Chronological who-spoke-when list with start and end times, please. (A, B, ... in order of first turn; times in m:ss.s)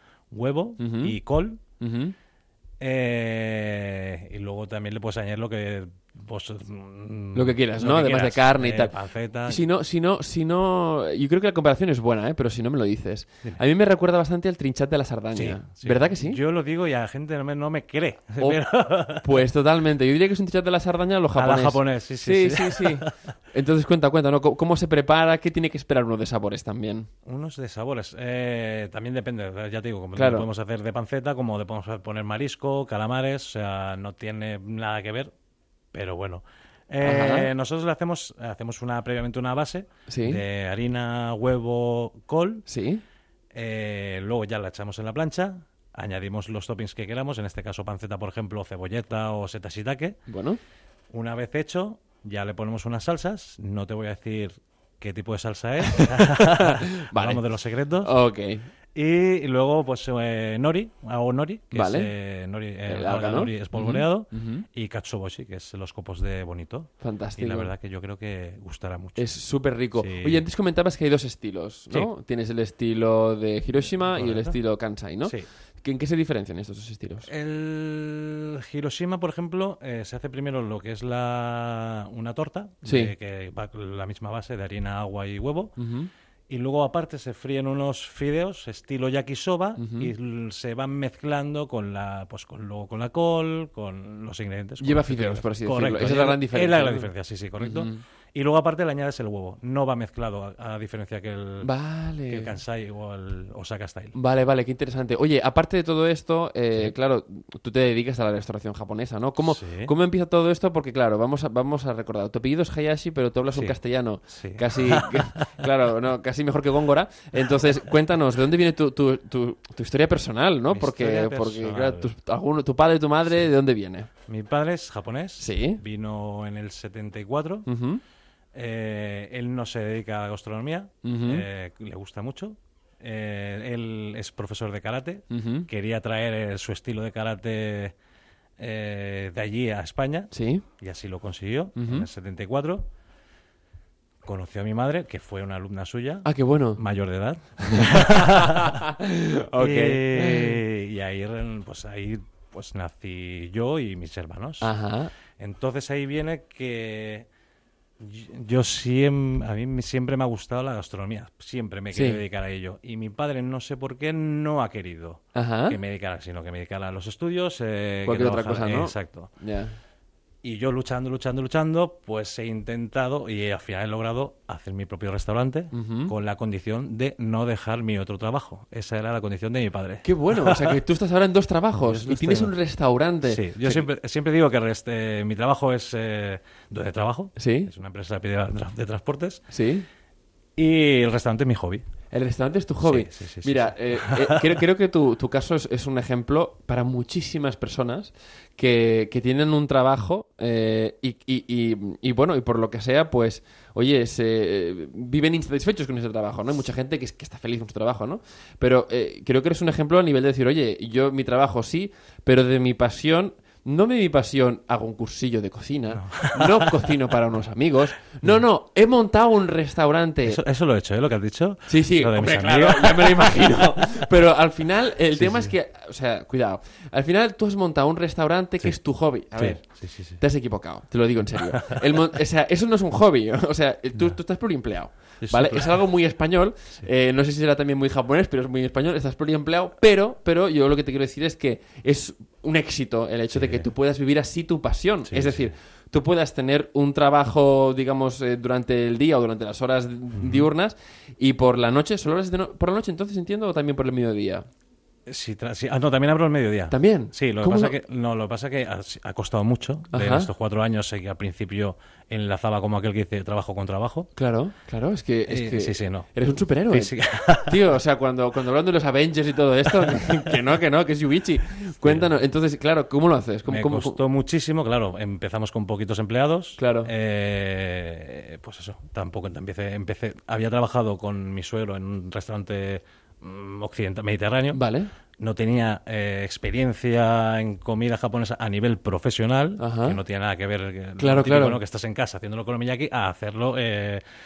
0:00.3-0:01.6 A
0:00.8-0:01.1 B
0:01.8-0:02.1 B
0:02.8-0:09.6 A
0:07.3-0:08.9 B
0:09.4-0:16.4 B
0:15.3-0:19.4 A
0:18.4-0:27.1 B
0:21.3-0:23.2 A
0:27.2-0:35.3 A
0:30.2-0:30.5 B
0:35.9-0:42.6 A
0:37.0-0:37.5 B
0:40.1-0:40.4 B
0:42.7-0:43.0 B
0:43.5-0:50.2 A
0:50.3-0:50.6 B
0:51.1-0:58.1 A
0:55.8-0:57.4 B
0:58.0-0:58.6 B
0:58.9-1:09.2 A
1:01.7-1:02.1 B
1:02.9-1:04.6 B
1:07.0-1:07.7 B
1:09.2-1:17.3 B
1:10.0-1:10.4 A
1:14.0-1:14.6 A
1:17.3-1:25.7 A
1:22.8-1:23.1 B
1:25.8-1:26.1 B
1:26.5-1:41.7 A
1:29.8-1:30.1 B
1:34.8-1:38.0 B
1:41.6-1:42.6 B
1:42.3-1:44.1 A
1:44.1-2:04.1 B
1:49.4-1:49.9 A
1:54.3-1:55.5 A
2:00.7-2:02.1 A
2:04.3-2:07.7 A
2:05.4-2:05.8 B
2:07.6-2:08.0 B
2:08.5-2:17.9 A
2:11.0-2:11.4 B
2:15.3-2:15.7 B
2:18.6-2:22.8 A
2:20.3-2:20.6 B
2:21.8-2:22.1 B
2:24.2-2:28.8 A
2:26.2-2:26.8 B
2:27.6-2:30.6 B
2:29.5-2:34.7 A
2:34.6-2:35.1 B
2:35.4-2:37.3 A
2:38.0-2:49.3 A
2:41.9-2:42.2 B
2:45.3-2:45.8 B
2:48.0-2:49.7 B
2:50.4-3:00.8 A
2:55.7-2:56.1 B
3:00.0-3:03.8 B
3:01.8-3:02.5 A
3:03.3-3:09.4 A
3:07.4-3:07.7 B
3:09.5-3:09.8 B
3:10.6-3:11.8 A
3:12.1-3:40.4 B
3:12.8-3:14.5 A
3:35.9-3:37.0 A
3:40.2-3:44.1 A
3:41.7-4:14.4 B
3:45.1-3:45.5 A
3:49.4-3:50.2 A
3:51.4-3:51.8 A
3:55.2-3:55.8 A
4:03.3-4:03.6 A
4:05.1-4:05.5 A
4:10.2-4:10.4 A
4:15.0-4:24.1 A
4:16.7-4:17.8 B
4:19.9-4:20.3 B
4:24.1-4:26.9 B
4:25.3-4:26.1 A
4:26.7-4:27.7 A
4:27.4-4:34.0 B
4:29.6-4:30.4 A
4:31.8-4:32.1 A
4:33.5-4:44.6 A
4:36.6-4:36.9 B
4:44.5-4:44.9 B
4:45.2-4:54.0 A
4:49.6-4:50.0 B
4:51.0-4:51.6 B